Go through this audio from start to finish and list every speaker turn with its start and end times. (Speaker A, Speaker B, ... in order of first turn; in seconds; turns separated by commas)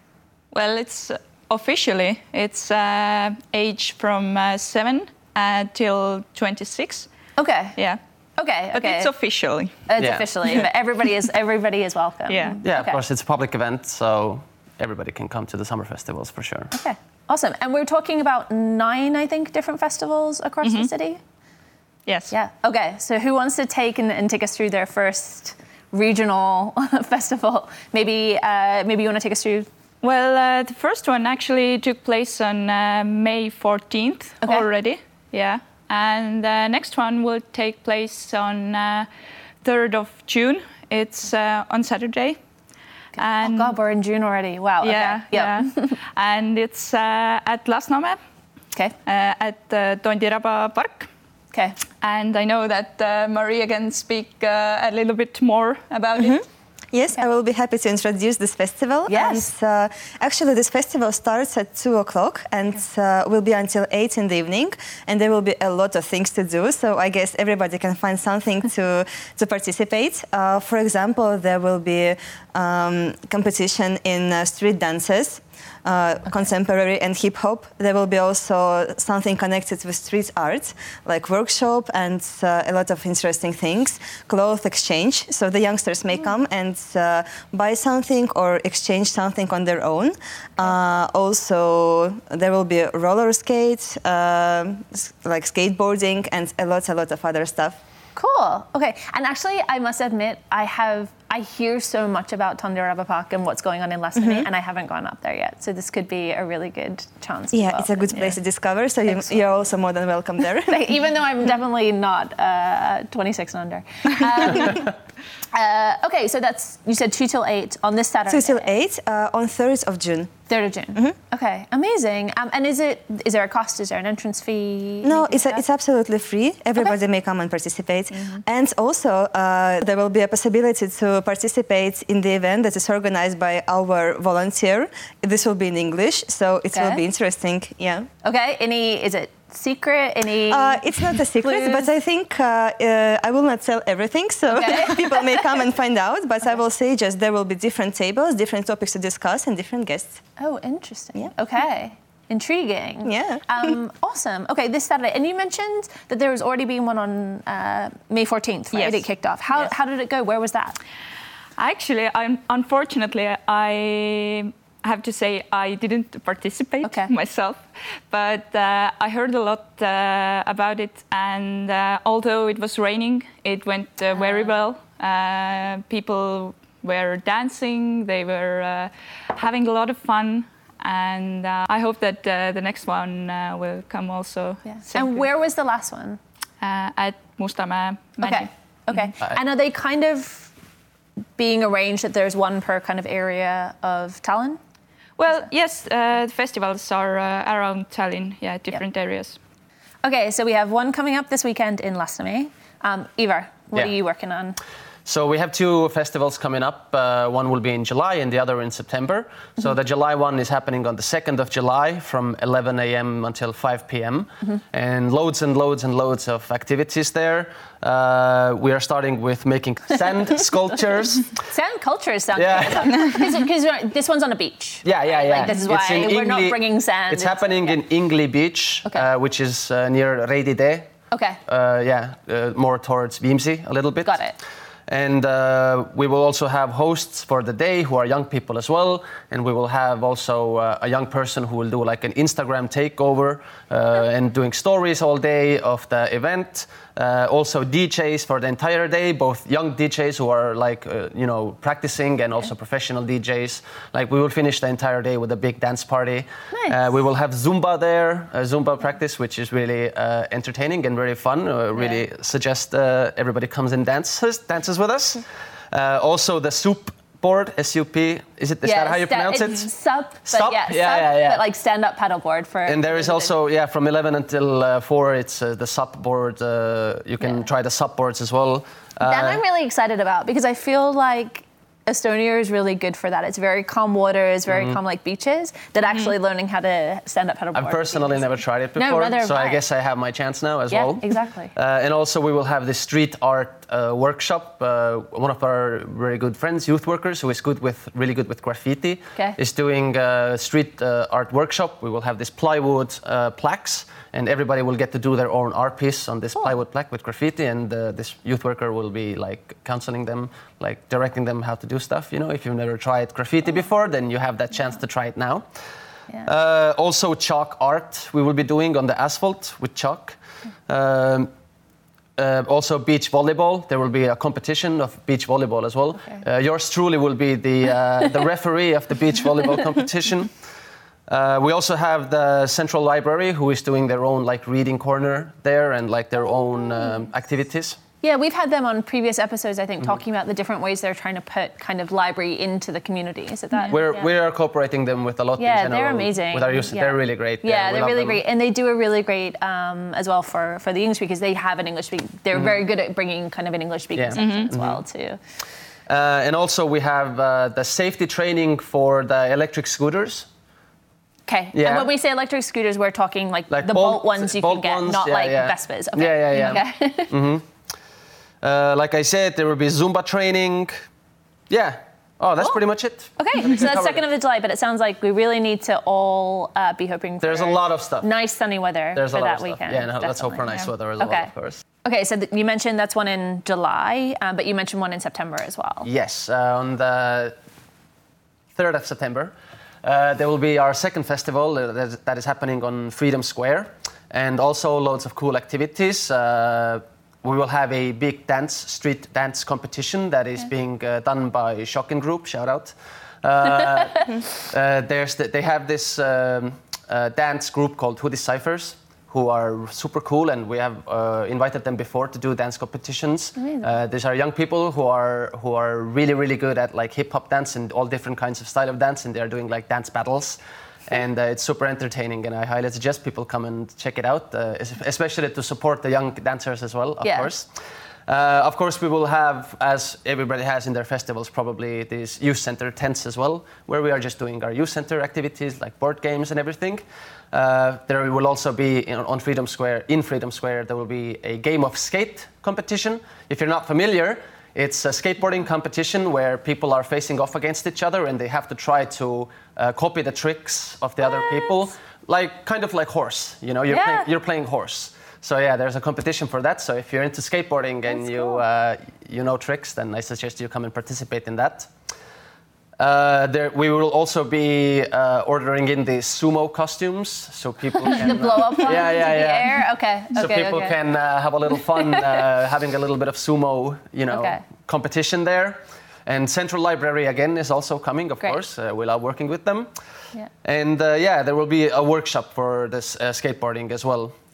Speaker A: 0.5-7.1, Speaker B: 7.4-7.8, Speaker B: 8.4-9.1, Speaker A: 8.7-9.8, Speaker B: 9.9-13.0, Speaker C: 10.0-10.3, Speaker A: 12.3-12.6, Speaker C: 12.6-16.7, Speaker B: 16.7-21.2, Speaker A: 20.6-20.9, Speaker A: 22.1-22.3, Speaker B: 22.3-29.7, Speaker A: 30.0-39.1, Speaker B: 34.4-34.7, Speaker A: 39.6-42.4, Speaker B: 43.1-46.0, Speaker A: 43.2-43.7, Speaker A: 44.8-48.2, Speaker A: 49.0-51.1, Speaker B: 51.5-51.8, Speaker A: 52.0-56.4, Speaker D: 56.2-97.8, Speaker B: 59.1-59.5, Speaker B: 98.2-108.4, Speaker D: 104.2-104.5, Speaker D: 107.5-111.0, Speaker B: 110.7-114.9, Speaker B: 115.5-118.8, Speaker D: 118.3-120.3, Speaker B: 120.5-125.6, Speaker D: 125.0-138.1, Speaker B: 136.7-137.0, Speaker B: 138.2-141.9, Speaker D: 140.5-150.2, Speaker B: 144.5-145.4, Speaker B: 150.4-160.8, Speaker D: 153.0-153.7, Speaker A: 158.7-159.1, Speaker A: 161.6-185.2, Speaker B: 166.8-167.1, Speaker B: 174.1-174.5, Speaker B: 184.7-186.2, Speaker A: 186.6-188.5, Speaker B: 188.2-190.5, Speaker B: 191.4-194.6, Speaker A: 195.2-199.4, Speaker B: 200.0-204.6, Speaker C: 205.1-221.4, Speaker B: 221.4-227.8, Speaker C: 222.4-223.0, Speaker C: 224.8-230.9, Speaker B: 231.1-231.4, Speaker C: 231.5-234.2, Speaker B: 234.1-234.4, Speaker C: 234.9-269.7, Speaker B: 256.5-256.8, Speaker B: 261.8-262.0, Speaker B: 268.6-273.3, Speaker C: 270.2-271.4, Speaker C: 272.7-279.4, Speaker B: 277.2-277.5, Speaker B: 279.0-288.2, Speaker C: 284.5-284.8, Speaker C: 287.6-315.5, Speaker B: 288.8-289.6, Speaker B: 290.7-291.5, Speaker C: 316.2-321.3, Speaker C: 322.2-330.4, Speaker C: 331.1-337.8, Speaker B: 338.0-344.1, Speaker C: 343.7-348.2, Speaker B: 345.4-355.2, Speaker C: 353.9-354.8, Speaker A: 354.2-354.5, Speaker C: 355.9-360.3, Speaker B: 361.3-367.1, Speaker C: 361.5-361.9, Speaker C: 363.5-367.4, Speaker C: 368.4-370.9, Speaker C: 371.5-374.0, Speaker B: 373.2-381.3, Speaker C: 377.2-378.1, Speaker C: 378.9-381.6, Speaker B: 381.8-385.9, Speaker C: 385.9-387.4, Speaker C: 388.6-427.5, Speaker B: 413.4-413.7, Speaker B: 427.0-427.3, Speaker C: 428.1-461.8, Speaker B: 453.7-454.1, Speaker C: 462.8-479.7, Speaker B: 467.9-470.8, Speaker B: 474.1-474.4, Speaker C: 480.4-484.1